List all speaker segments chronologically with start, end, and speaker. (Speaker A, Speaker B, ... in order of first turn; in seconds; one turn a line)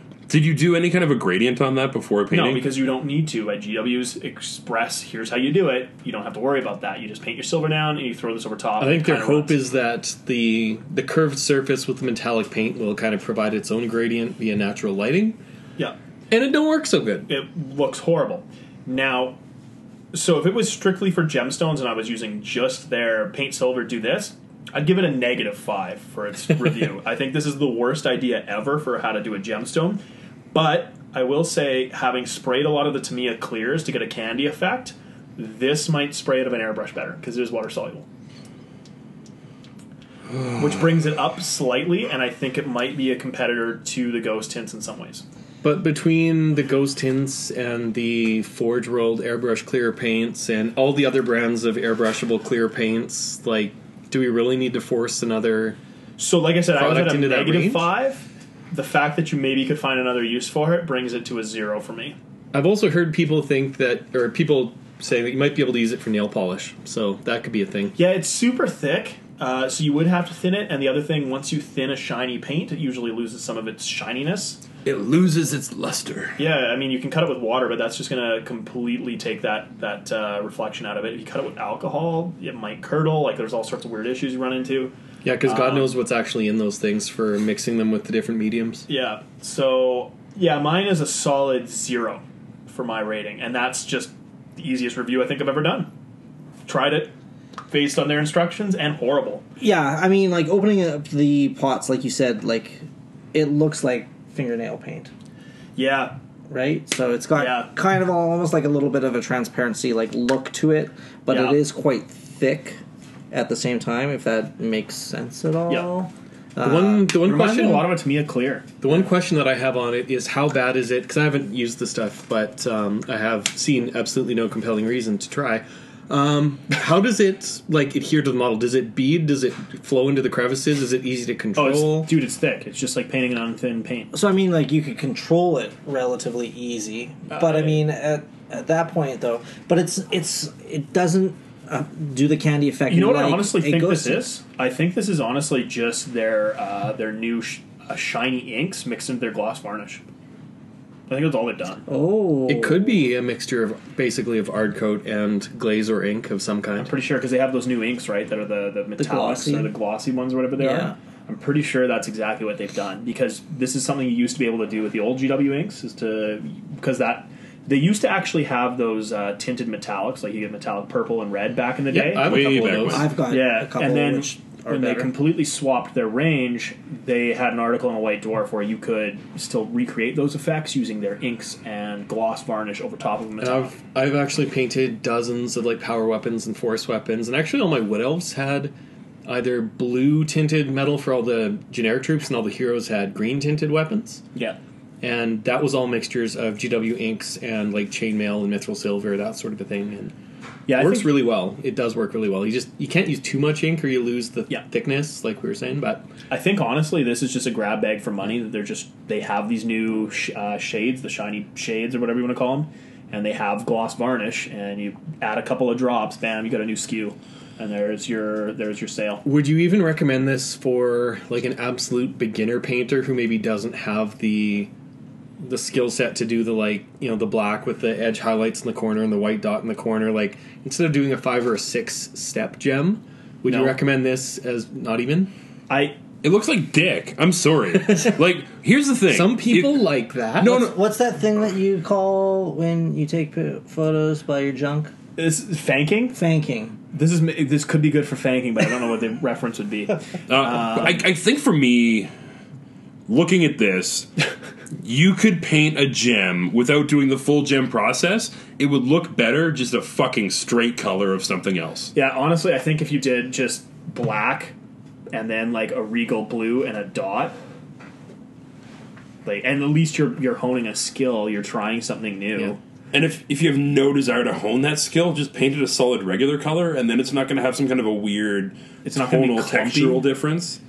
Speaker A: 0.3-2.7
Speaker B: 2.3-9.6
Speaker C: 8.8-15.4
Speaker C: 16.3-17.3
Speaker B: 17.3-19.4
Speaker B: 20.1-30.0
Speaker B: 30.5-38.0
Speaker A: 40.3-40.6
Speaker B: 40.6-45.2
Speaker C: 45.6-55.8
Speaker B: 56.2-62.2
Speaker C: 56.7-57.9
Speaker C: 62.5-68.0
Speaker B: 68.0-74.6
Speaker A: 74.8-76.4
Speaker B: 76.4-84.9
Speaker C: 85.2-88.9
Speaker B: 85.5-85.9
Speaker B: 88.9-95.9
Speaker B: 96.7-97.1
Speaker B: 97.7-99.4
Speaker D: 99.6-105.1
Speaker B: 105.8-106.2
Speaker D: 106.5-117.1
Speaker B: 107.4-107.7
Speaker B: 111.3-111.6
Speaker C: 116.6-117.9
Speaker B: 117.0-118.8
Speaker C: 118.8-132.1
Speaker B: 131.6-134.1
Speaker D: 134.1-144.3
Speaker B: 137.3-137.9
Speaker B: 142.9-150.0
Speaker B: 151.1-151.8
Speaker D: 151.9-153.0
Speaker C: 152.5-156.9
Speaker B: 156.8-172.6
Speaker D: 159.0-159.7
Speaker D: 160.6-160.9
Speaker C: 171.9-173.1
Speaker A: 172.2-173.1
Speaker D: 172.8-175.1
Speaker B: 173.3-183.8
Speaker C: 183.4-188.7
Speaker C: 189.3-194.2
Speaker C: 195.0-200.1
Speaker B: 200.7-201.2
Speaker C: 200.7-206.1
Speaker B: 206.3-219.2
Speaker C: 219.2-224.7
Speaker C: 225.4-235.3
Speaker B: 233.4-233.8
Speaker B: 235.7-236.0
Speaker A: 236.2-240.8
Speaker C: 239.1-240.7
Speaker D: 240.4-244.9
Speaker B: 245.2-246.2
Speaker D: 246.1-246.8
Speaker B: 246.9-251.1
Speaker A: 250.3-252.1
Speaker A: 253.1-254.1
Speaker A: 254.8-261.9
Speaker B: 261.9-264.5
Speaker B: 265.1-267.4
Speaker B: 269.2-272.6
Speaker A: 272.9-280.6
Speaker B: 278.8-280.1